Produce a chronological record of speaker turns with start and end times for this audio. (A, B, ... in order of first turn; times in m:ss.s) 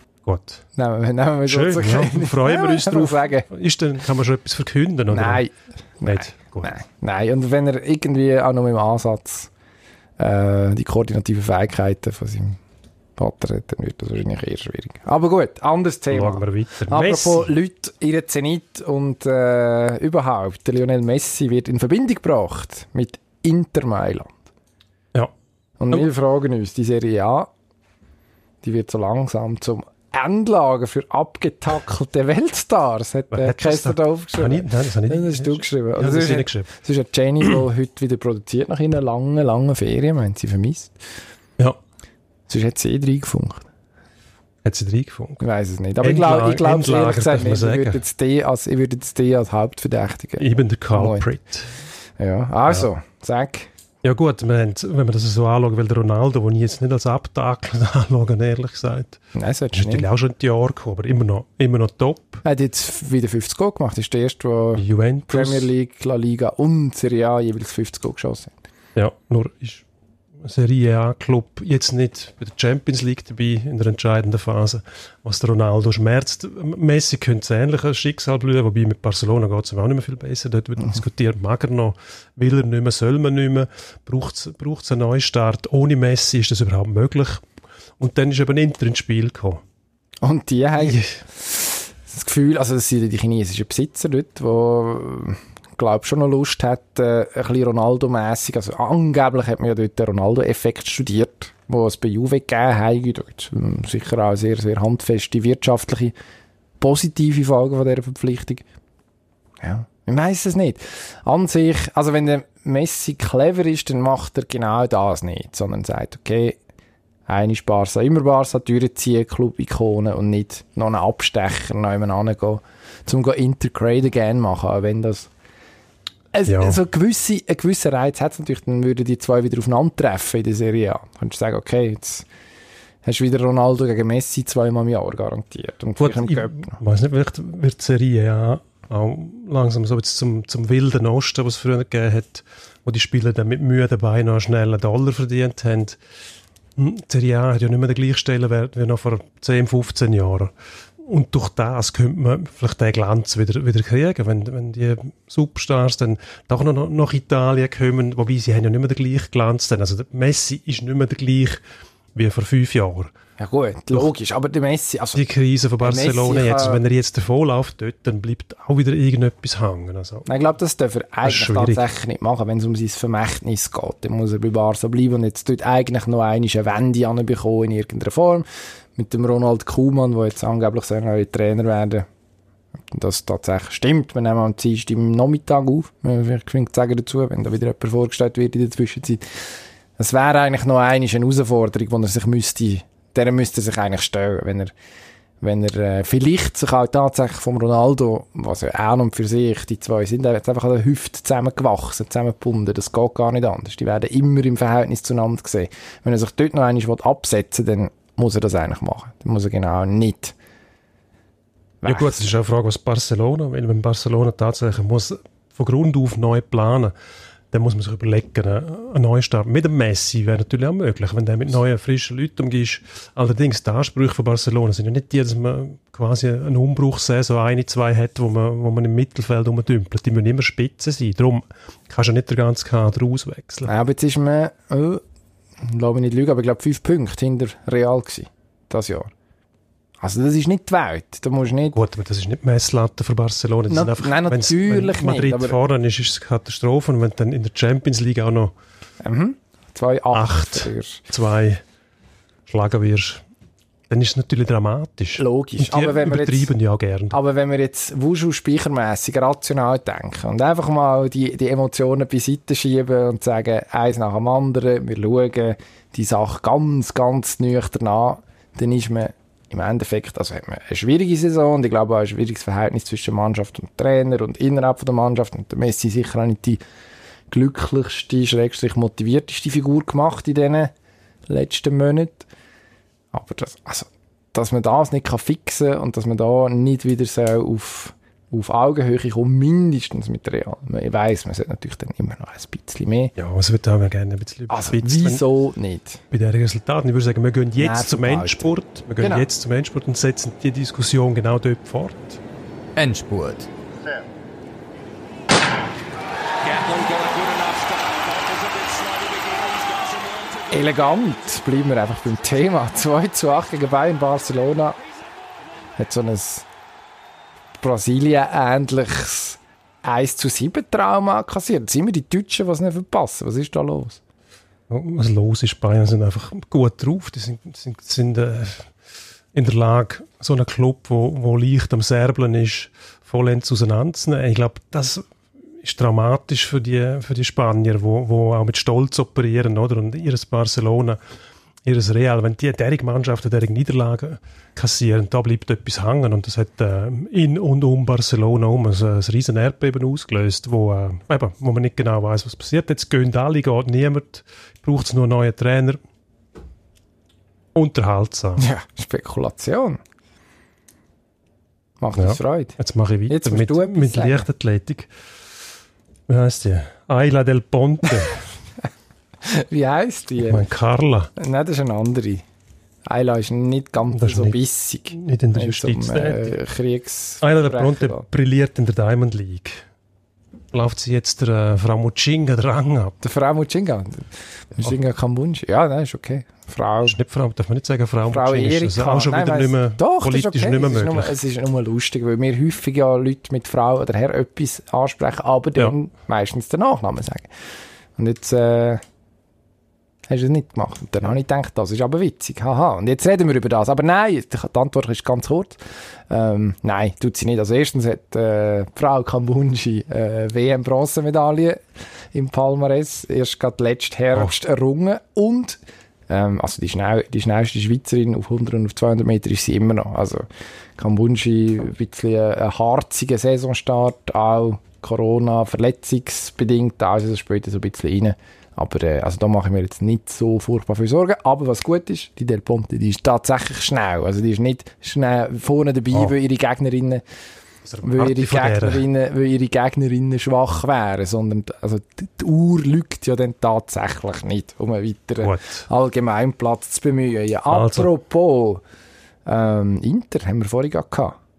0:00.2-0:00.6 A
0:00.8-0:03.5 B
0:01.5-0:05.4 A
0:05.1-0:09.5 B
0:06.0-0:06.7 A
0:10.2-0:12.6 B
0:13.2-0:24.4 B
0:16.1-0:17.5 A
0:25.8-0:27.5 B
0:28.6-0:41.0 B
0:33.3-0:36.7 A
0:42.5-0:43.6 B
0:44.6-0:45.4 A
0:45.4-0:51.2 B
0:46.0-0:48.0 A
0:50.4-0:51.8 A
0:52.2-0:53.7 B
0:54.0-0:59.2 A
0:59.3-1:00.0 B
0:59.7-1:02.4 A
1:02.4-1:08.5 B
1:04.8-1:05.7 A
1:09.0-1:09.8 A
1:10.4-1:27.4 A
1:28.0-1:29.6 A
1:30.2-1:46.1 B
1:30.8-1:31.2 A
1:46.8-1:48.6 B
1:49.6-1:56.6 B
1:57.3-2:05.3 B
2:06.3-2:12.3 B
2:06.5-2:06.8 A
2:13.0-2:16.8 B
2:16.0-2:26.0 A
2:26.8-2:30.5 A
2:31.0-2:41.6 A
2:42.1-2:43.1 A
2:43.4-2:45.3 B
2:45.1-2:50.3 A
2:45.8-2:46.8 B
2:50.2-3:02.1 B
2:51.2-2:51.8 A
3:02.9-3:14.7 B
3:15.4-3:30.3 B
3:31.8-3:32.2 B
3:31.8-3:36.9 A
3:37.5-3:53.7 A
3:53.6-3:55.0 B
3:55.6-3:59.1 B
4:00.0-4:01.8 B
4:01.7-4:08.5 A
4:03.7-4:05.6 B
4:09.0-4:11.0 B
4:10.1-4:11.6 A
4:12.5-4:13.2 A
4:13.9-4:17.2 A
4:15.2-4:16.5 B
4:17.1-4:36.6 B
4:37.3-4:40.7 B
4:41.3-4:42.3 B
4:43.1-4:53.1 B
4:53.2-4:55.2 A
4:54.5-4:56.0 B
4:56.1-5:02.2 A
4:57.6-4:59.2 B
5:02.8-5:03.5 C
5:06.4-5:10.3 C
5:10.5-5:14.8 B
5:15.8-5:16.5 B
5:17.6-5:24.0 B
5:24.7-5:28.7 A
5:29.3-5:35.0 A
5:35.6-5:41.0 A
5:41.6-5:55.8 A
5:57.5-5:58.5 A
5:58.4-5:59.8 B
6:01.8-6:04.3 B
6:02.0-6:04.9 A
6:06.1-6:08.2 A
6:09.2-6:10.4 B
6:10.2-6:11.1 A
6:11.2-6:12.2 B
6:12.8-6:18.0 B
6:13.9-6:14.4 A
6:14.9-6:16.4 A
6:17.2-6:19.6 A
6:20.5-6:23.0 A
6:23.0-6:27.0 B
6:26.8-6:31.2 A
6:28.1-6:37.3 B
6:38.0-6:38.8 B
6:40.1-7:17.0 B
7:17.6-7:18.8 A
7:17.8-7:28.6 B
7:25.2-7:25.6 A
7:27.5-7:27.9 A
7:29.2-7:31.2 B